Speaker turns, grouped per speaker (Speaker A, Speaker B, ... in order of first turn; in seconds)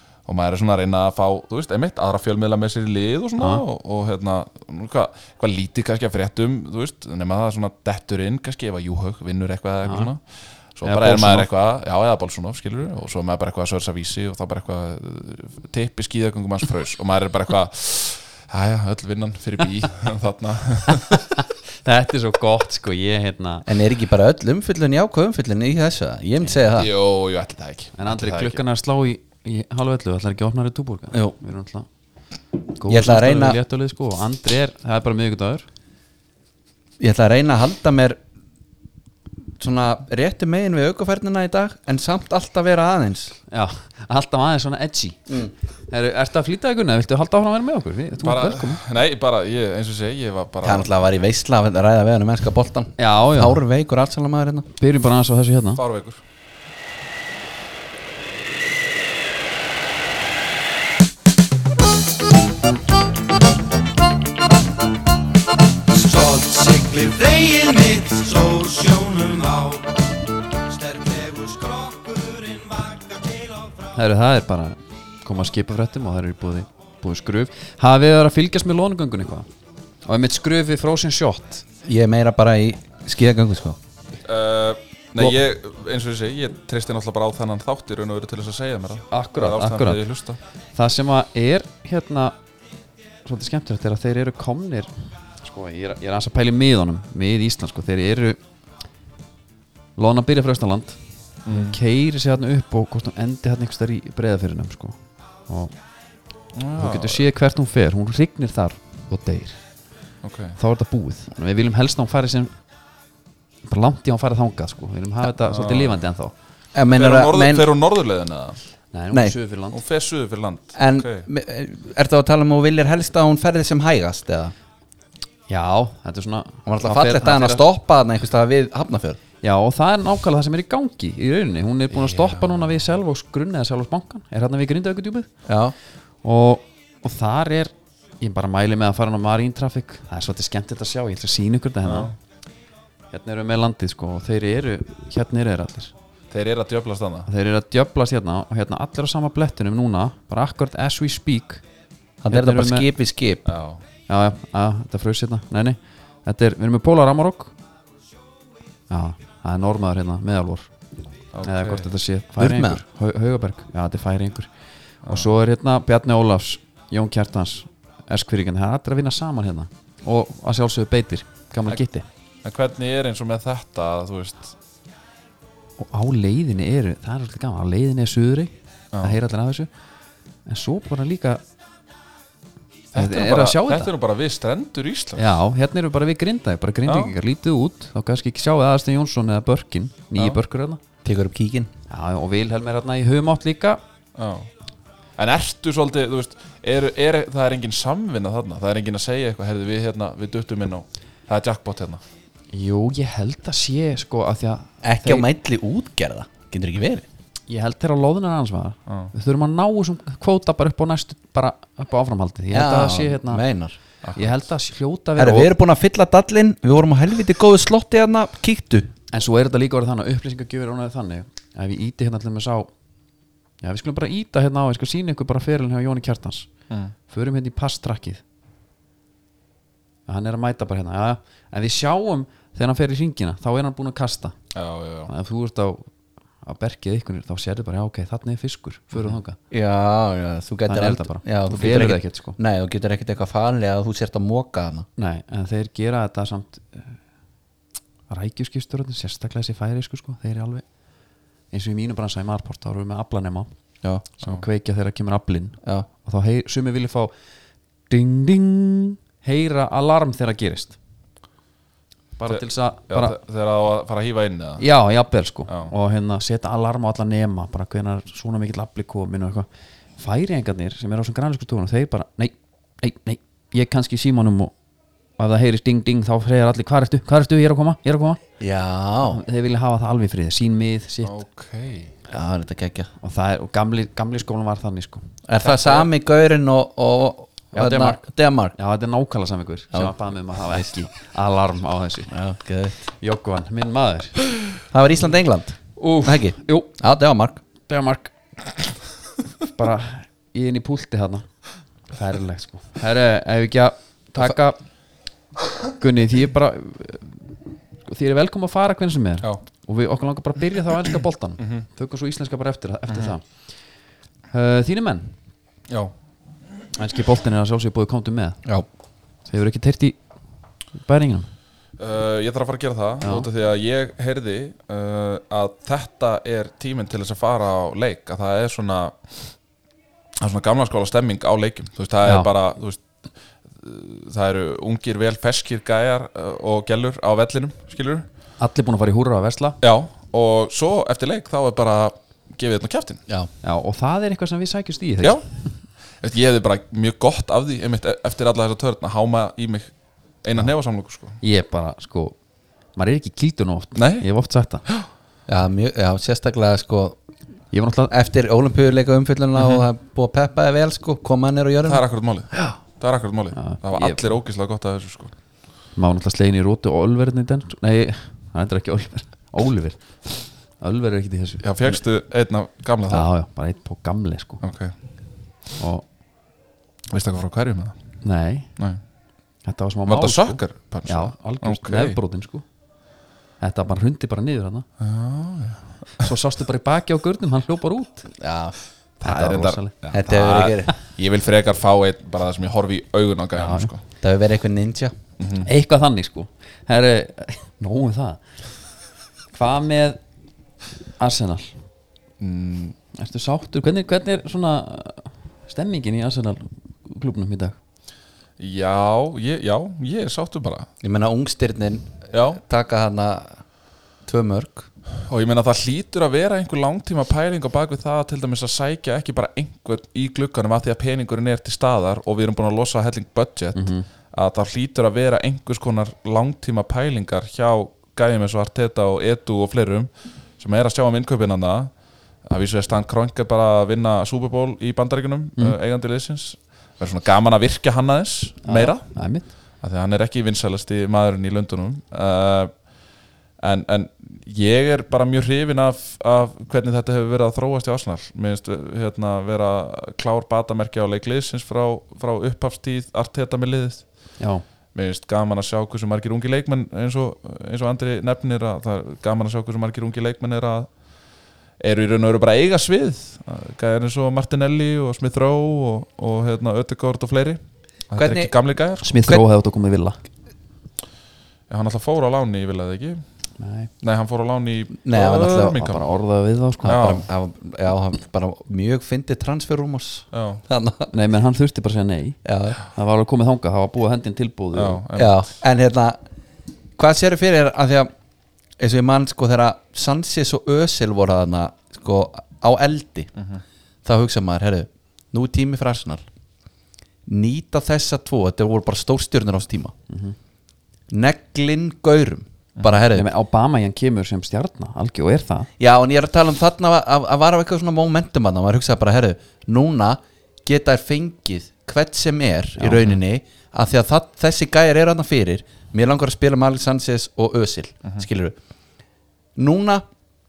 Speaker A: 0.2-10.2, 10.7-21.2, 26.7-28.6, 48.2-50.9, 55.8-56.2, 84.2-90.4, 101.5-101.8, 106.5-107.2, 110.2-110.6, 115.4-116.0, 116.9-118.6, 119.7-121.3, 131.9-132.6, 141.8-142.1, 146.3-147.3, 153.4-153.8, 161.3-161.9, 172.4-174.5, 178.9-179.2, 182.9-185.3, 186.9-187.1, 194.2-194.5, 195.2-202.0, 208.9-209.1, 214.0-214.4, 234.5-235.1, 262.3-264.6, 265.5-265.7, 281.0-281.9, 311.4-311.6, 312.9-313.1, 321.8-329.1, 330.2-332.8, 333.5-338.0, 339.6-343.0, 346.0-349.7, 350.2-351.2, 353.7-354.1, 359.4-359.6, 361.6-365.1, 371.4-373.1, 374.4-374.7, 376.9-377.7, 379.9-382.0, 384.8-386.1, 389.0-393.8, 395.2-395.5, 402.2-402.7, 408.4-410.7, 412.1-412.4, 415.1-431.7, 432.2-439.0, 439.6-442.6, 443.4-453.9, 454.7-460.7, 461.6-469.0, 471.5-473.0, 473.8-475.8, 476.6-477.0, 480.1-480.4, 484.5-485.2, 493.2-493.4
Speaker B: 3.4-3.6, 9.8-10.1, 10.8-11.5, 20.9-23.7, 27.9-31.9, 32.7-35.7, 43.5-48.8, 53.0-53.6, 54.8-55.8, 73.9-79.5, 80.0-81.6, 89.1-90.0, 90.7-92.3, 93.2-98.4, 100.0-105.0, 105.5-105.7, 106.8-109.6, 110.6-112.5, 113.6-116.3, 118.9-119.8, 125.5-127.6, 129.4-135.3, 136.2-142.1, 143.1-145.9, 147.3-151.6, 152.3-152.9, 154.1-157.5, 158.9-160.7, 161.4-164.5, 165.1-172.1, 175.8-179.7, 180.5-181.4, 182.9-183.9, 185.2-190.8, 191.9-193.8, 202.5-205.2, 207.5-213.4, 214.2-215.5, 219.1-222.7, 223.6-226.5, 227.1-228.2, 230.1-234.3, 235.1-235.9, 236.4-239.4, 240.7-242.4, 245.0-247.0, 248.1-250.6, 251.5-253.5, 254.2-257.1, 257.9-260.8, 262.2-263.2, 264.6-269.5, 270.0-274.5, 275.2-278.2, 279.1-281.1, 283.0-285.8, 287.5-288.0, 288.6-292.1, 293.0-294.1, 295.8-296.7, 297.7-298.1, 299.5-301.3, 301.9-304.6, 305.8-307.2, 307.9-313.3, 314.3-315.1, 316.7-318.4, 319.3-320.0, 320.8-321.3, 323.0-323.3, 338.4-339.6, 343.4-345.2, 351.2-352.1, 352.7-354.6, 357.5-357.9, 363.3-364.2, 365.8-370.0, 370.6-371.7, 372.9-374.4, 375.6-375.8, 378.0-378.5, 379.4-382.4, 383.4-384.6, 386.0-388.1, 389.0-389.7, 393.4-393.7, 395.4-398.2, 399.3-400.0, 401.0-401.5, 402.9-407.6, 423.5-423.9, 438.4-439.3, 468.8-470.0, 473.4-473.7, 475.5-476.8, 480.9-482.2, 482.7-484.8, 499.9-500.1, 502.9-505.5, 512.6-512.9
Speaker C: 23.7-26.9, 32.9-33.6, 37.0-38.2, 39.6-43.3, 50.6-54.7, 81.8-83.8, 116.7-117.7, 120.8-124.5, 126.7-129.2, 135.5-135.7, 152.2-153.4, 162.4-162.8, 191.0-191.7, 204.8-207.1, 212.5-213.8, 215.2-218.9, 239.5-244.8, 278.4-279.2, 282.1-282.9, 285.3-288.5, 292.1-292.8, 294.7-297.4, 355.3-357.0, 357.9-361.8, 388.1-388.5, 389.9-390.7, 394.0-394.9, 410.8-413.4, 414.1-414.7, 468.0-468.3, 474.8-475.6, 476.6-480.9, 482.2-482.6, 484.9-486.0, 486.8-487.9, 488.6-493.1, 493.8-496.0, 497.1-499.7, 500.9-503.1, 505.6-518.4, 519.4-519.8
Speaker D: 66.1-69.7